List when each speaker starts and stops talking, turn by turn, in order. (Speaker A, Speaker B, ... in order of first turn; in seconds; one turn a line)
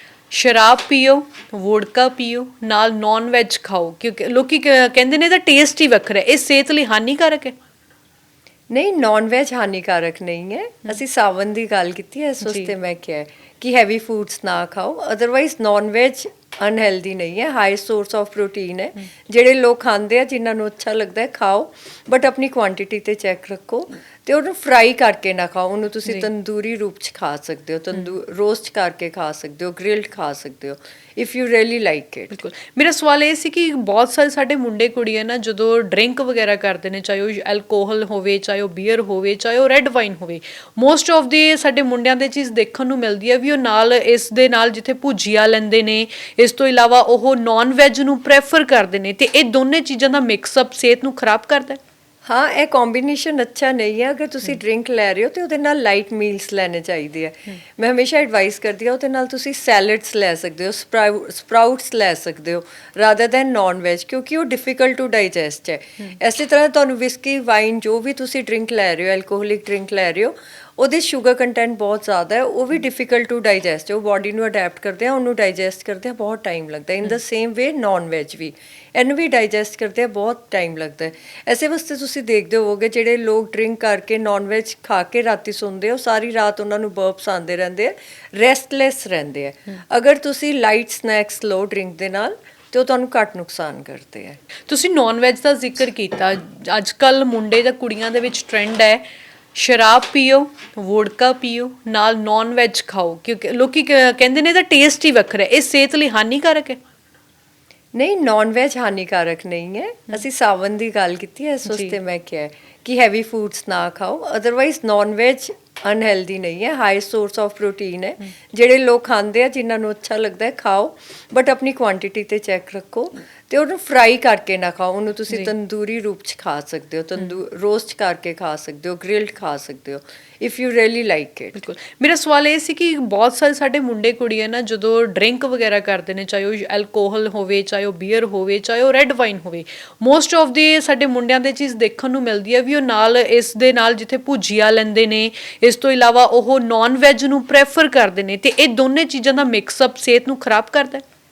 Speaker A: 0.3-7.5
Speaker B: 8.7-32.3
Speaker A: 32.3-51.8
Speaker B: 52.2-94.4
Speaker A: 94.7-99.0
Speaker A: 99.5-106.8
Speaker B: 107.9-131.6
Speaker A: 131.6-151.0